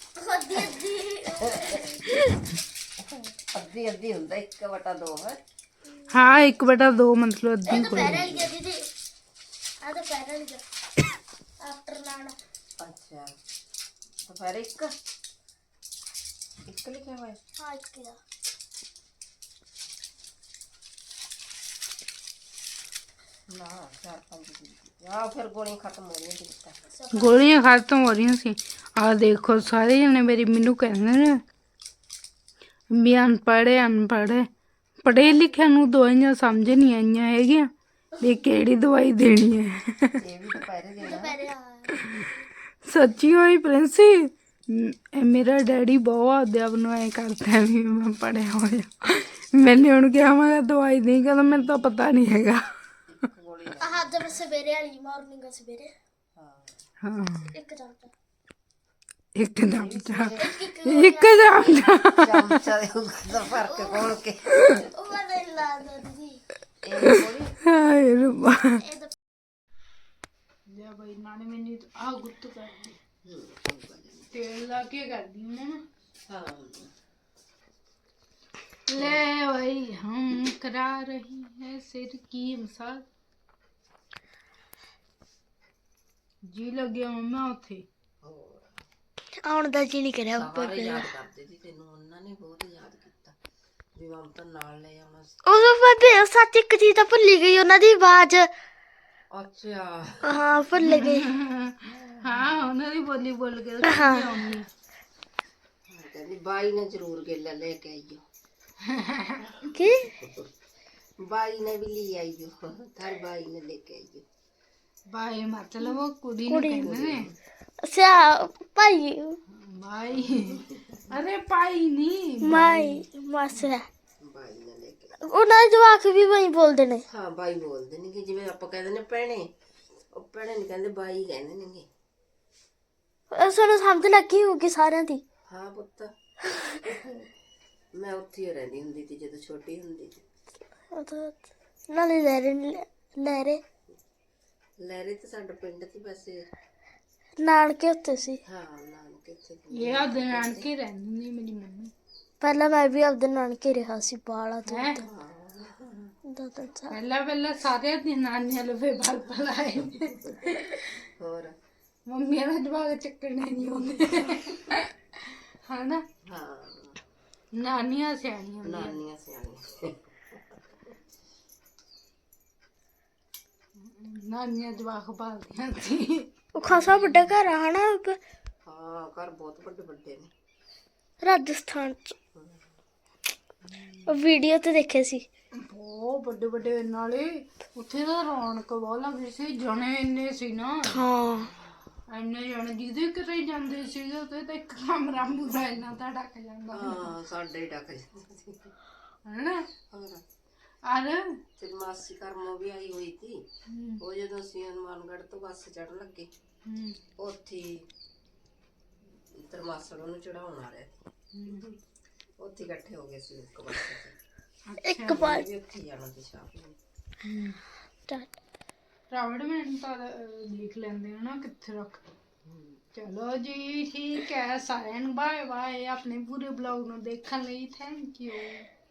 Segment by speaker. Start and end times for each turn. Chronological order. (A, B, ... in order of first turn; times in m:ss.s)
0:00.2-0:02.1 A
0:00.5-0:00.8 B
0:01.4-0:02.0 B
0:03.5-0:05.4 B
0:06.1-0:08.3 C
0:07.6-0:08.8 A
0:07.7-0:08.5 B
0:09.8-0:10.6 A
0:11.6-0:12.3 A
0:12.8-0:13.3 B
0:14.2-0:14.9 B
0:16.6-0:17.4 B
0:17.6-0:18.2 A
0:23.5-0:26.8 B
0:26.9-0:27.4 A
0:27.1-0:31.4 C
0:32.9-0:34.5 C
0:35.0-0:37.7 C
0:38.2-0:40.2 C
0:40.2-0:41.5 B
0:41.0-0:41.9 A
0:42.8-0:52.7 C
0:53.1-0:54.2 B
0:53.8-0:55.9 A
0:56.4-0:56.8 B
0:57.0-0:57.5 C
0:57.5-0:58.1 A
0:59.4-1:00.3 C
0:59.7-1:00.5 B
1:00.4-1:02.1 A
1:00.8-1:02.6 C
1:02.2-1:04.8 B
1:03.3-1:04.1 A
1:04.7-1:06.4 A
1:06.8-1:07.5 B
1:07.1-1:08.8 C
1:08.8-1:09.1 A
1:10.7-1:13.0 C
1:13.2-1:14.3 B
1:14.3-1:15.8 C
1:16.3-1:16.9 B
1:18.9-1:23.0 C
1:26.5-1:27.8 C
1:28.2-1:28.8 B
1:29.4-1:31.0 A
1:30.3-1:33.4 B
1:33.9-1:35.3 B
1:35.4-1:38.5 A
1:39.3-1:40.4 B
1:40.2-1:41.3 A
1:40.8-1:44.7 C
1:41.9-1:42.6 B
1:43.8-1:44.3 A
1:45.9-1:48.2 B
1:48.8-1:49.8 C
1:49.7-1:50.1 A
1:51.2-1:54.2 B
1:55.1-1:57.3 C
1:56.5-1:56.9 A
1:56.8-1:57.3 B
1:57.8-1:59.4 A
1:59.5-2:03.0 C
2:00.1-2:01.0 B
2:02.4-2:03.9 A
2:04.2-2:05.2 B
2:05.2-2:07.0 A
2:07.1-2:09.5 B
2:10.1-2:11.9 B
2:13.3-2:15.2 A
2:15.5-2:16.1 B
2:16.5-2:16.8 A
2:16.8-2:17.2 B
2:17.9-2:20.2 B
2:20.9-2:23.6 A
2:24.8-2:26.4 B
2:27.4-2:28.4 A
2:28.4-2:30.7 B
2:29.7-2:31.9 C
2:32.4-2:35.0 A
2:34.6-2:35.0 C
2:35.0-2:36.1 B
2:36.3-2:37.0 A
2:36.9-2:40.8 C
2:41.2-2:41.5 B
2:42.1-2:46.0 C
2:46.2-2:47.0 B
2:47.5-2:49.0 C
2:48.6-2:50.9 B
2:53.8-2:57.0 C
2:56.5-2:58.2 A
2:58.6-3:00.3 B
3:01.2-3:02.2 A
3:02.3-3:02.6 B
3:03.7-3:04.2 C
3:04.1-3:05.2 A
3:05.6-3:11.0 C
3:10.9-3:11.5 A
3:12.1-3:17.1 C
3:16.7-3:18.7 B
3:19.2-3:19.6 C
3:19.9-3:20.2 B
3:20.9-3:21.2 C
3:21.6-3:23.4 B
3:23.7-3:24.0 C
3:24.0-3:26.3 B
3:26.6-3:27.0 C
3:27.2-3:27.9 B
3:29.3-3:30.9 B
3:31.3-3:31.7 C
3:32.4-3:34.2 B
3:34.6-3:35.3 C
3:34.8-3:35.4 A
3:35.0-3:36.8 B
3:37.2-3:37.6 C
3:39.1-3:42.1 C
3:42.4-3:42.8 B
3:42.9-3:48.7 C